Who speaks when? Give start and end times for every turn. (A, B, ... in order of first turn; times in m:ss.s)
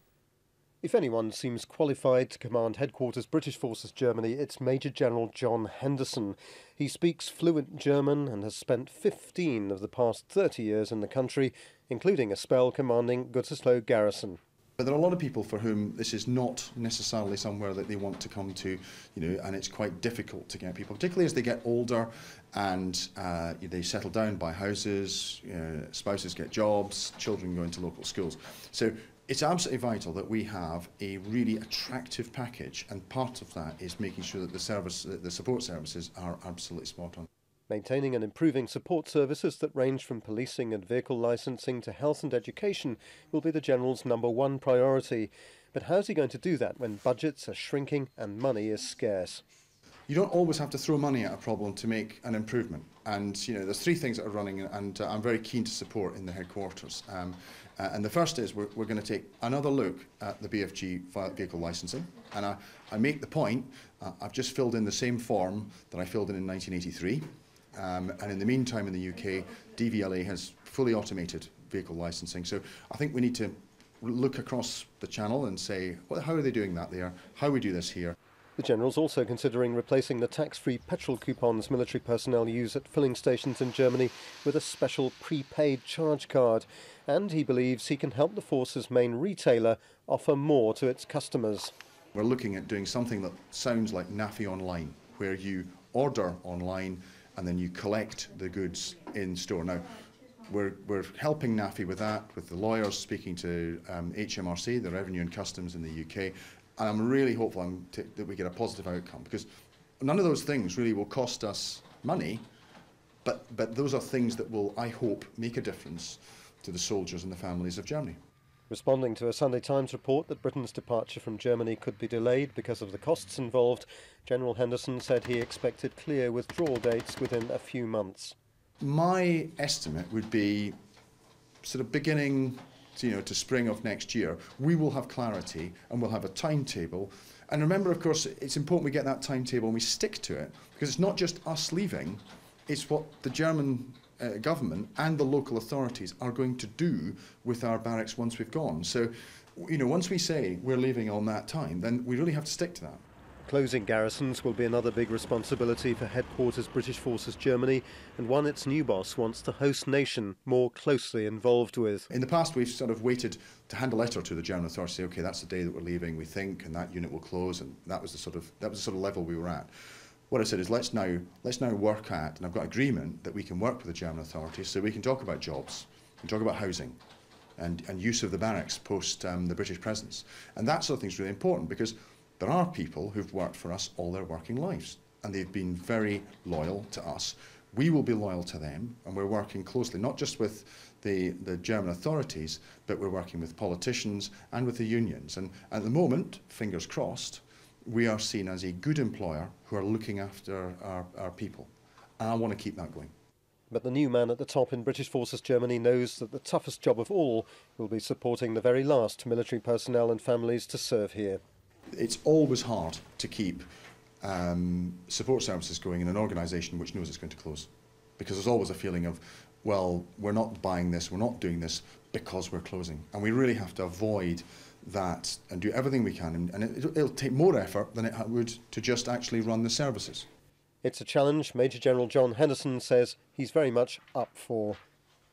0:00.8-0:14.4 A
0:14.8-0:37.3 B
0:37.7-0:49.4 A
0:50.1-1:18.2 B
1:18.6-1:31.7 A
1:32.1-1:49.5 B
1:50.0-1:52.4 B
1:53.2-1:58.2 B
1:58.7-2:08.4 A
2:08.8-2:10.8 B
2:11.6-2:33.0 B
2:33.4-2:42.1 A
2:42.1-2:49.7 B
2:50.3-2:57.0 B
2:57.6-3:23.1 B
3:23.7-3:31.4 A
3:31.9-3:33.6 B
3:34.2-3:50.3 B
3:50.8-3:54.8 A